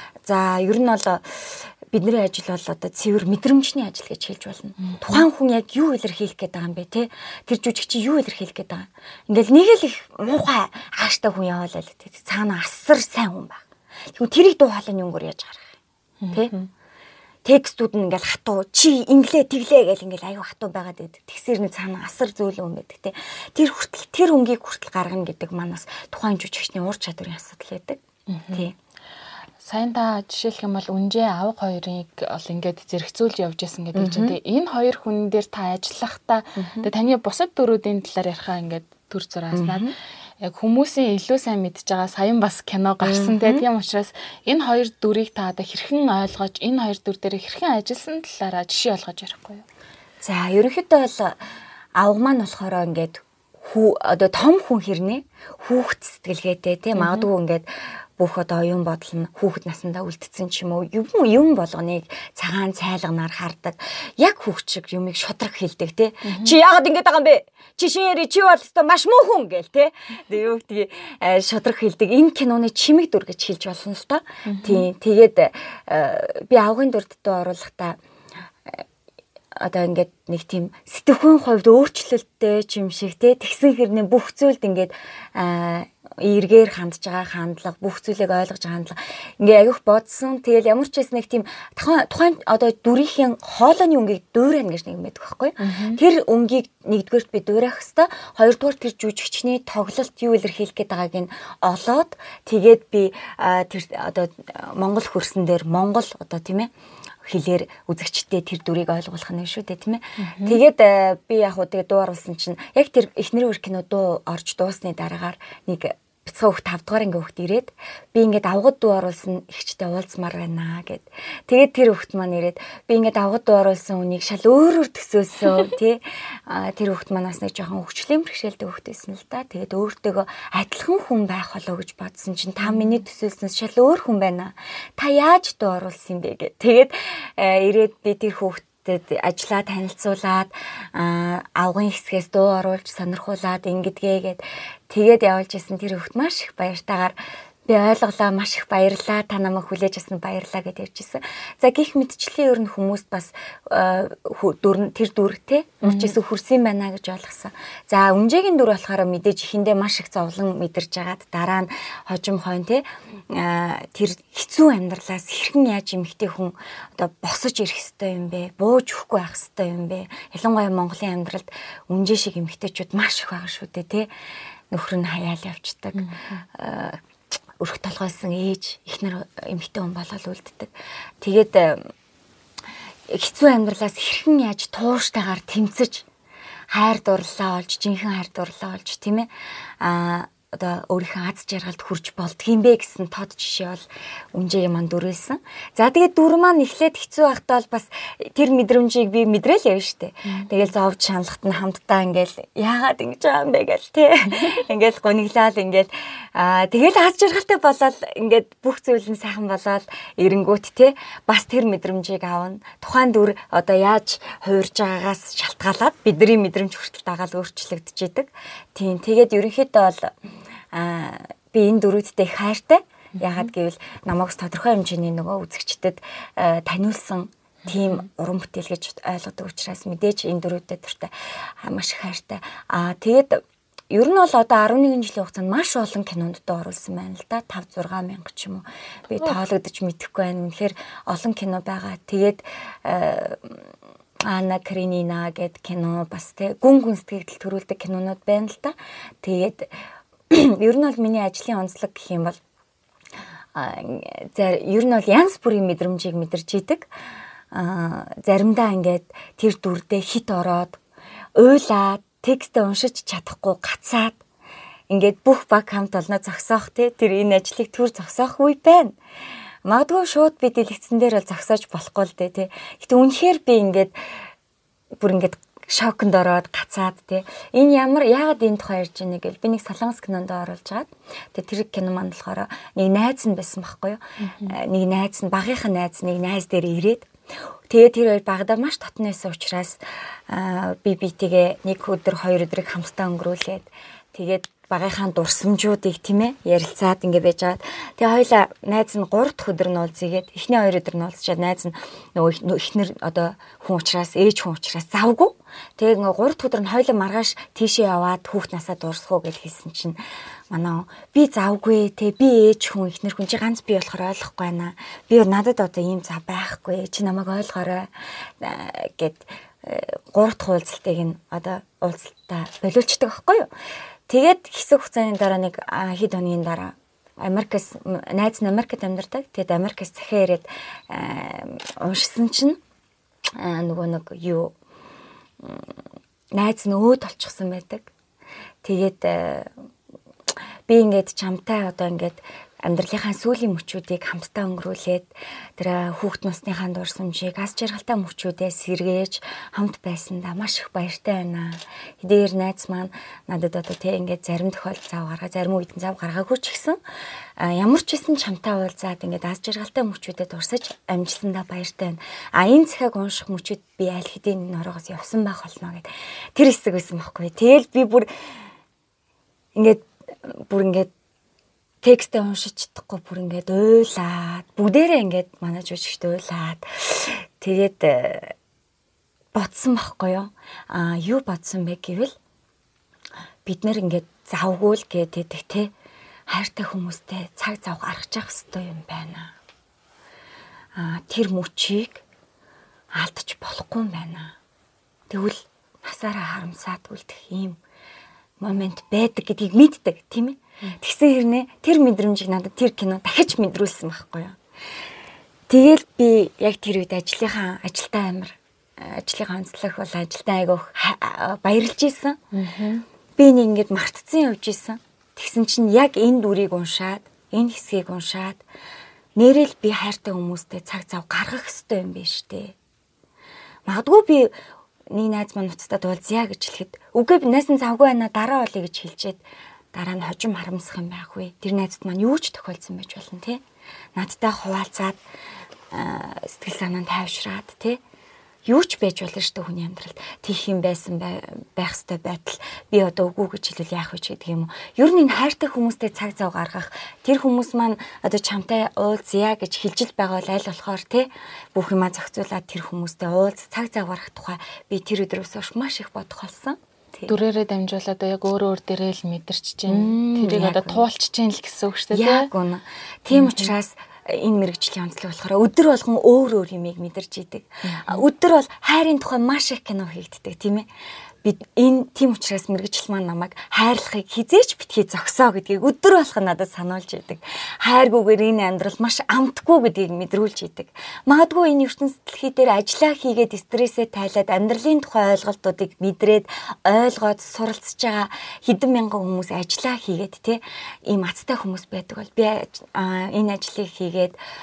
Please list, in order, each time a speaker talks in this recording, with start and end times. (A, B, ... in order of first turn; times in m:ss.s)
0:00.2-0:15.7 A
0:04.8-0:05.2 B
0:16.2-0:16.7 B
0:17.4-0:28.0 A
0:28.3-0:28.7 B
0:29.6-0:49.6 B
0:33.9-0:34.4 A
0:36.6-0:36.9 A
0:39.5-0:39.9 A
0:43.0-0:43.6 A
0:50.2-0:51.4 A
0:52.0-1:18.0 A
0:56.9-0:57.3 B
1:06.2-1:06.5 B
1:14.4-1:14.8 B
1:19.6-1:46.7 A
1:35.6-1:36.0 B
1:47.2-2:27.1 A
1:50.2-1:50.6 B
2:12.6-2:13.0 B
2:27.6-2:54.1 A
2:35.8-2:36.2 B
2:54.7-2:57.0 A
2:55.9-2:56.4 B
2:57.6-3:01.9 A
3:03.1-3:06.1 A
3:06.7-3:09.3 A
3:09.8-3:40.2 A
3:24.3-3:24.6 B
3:40.7-4:03.7 A
3:47.7-3:48.0 B
4:04.2-4:09.7 A
4:10.3-4:12.4 A
4:13.5-4:16.9 A
4:17.5-4:20.8 A
4:21.4-4:24.2 A
4:24.9-4:29.0 A
4:29.6-4:33.9 A
4:35.0-4:47.1 A
4:44.2-4:44.5 B
4:47.7-5:10.0 A
5:10.5-5:23.5 A
5:24.1-5:32.6 A
5:33.4-5:34.5 A
5:35.4-5:35.7 A
5:36.3-5:37.9 A
5:38.6-5:39.5 A
5:40.7-5:56.8 A
5:57.4-6:08.1 A
6:09.5-6:10.9 A
6:11.8-6:18.3 A
6:19.3-6:22.1 A
6:23.4-6:25.7 A
6:26.3-6:29.3 A
6:30.8-6:32.0 A
6:32.9-6:34.3 A
6:35.1-6:37.6 A
6:38.4-6:44.4 A
6:45.5-6:52.2 A
6:52.3-6:52.8 B
6:53.2-6:58.4 A
6:59.2-7:02.5 A
7:03.7-7:04.3 A
7:04.9-7:09.2 A
7:09.7-7:13.4 A
7:13.9-7:15.0 A
7:15.7-7:17.8 A
7:18.4-7:37.2 A
7:37.1-7:42.3 B
7:39.7-7:40.8 A
7:41.9-7:50.7 A
7:43.1-7:43.5 B
7:47.6-7:48.0 B
7:51.2-8:14.2 A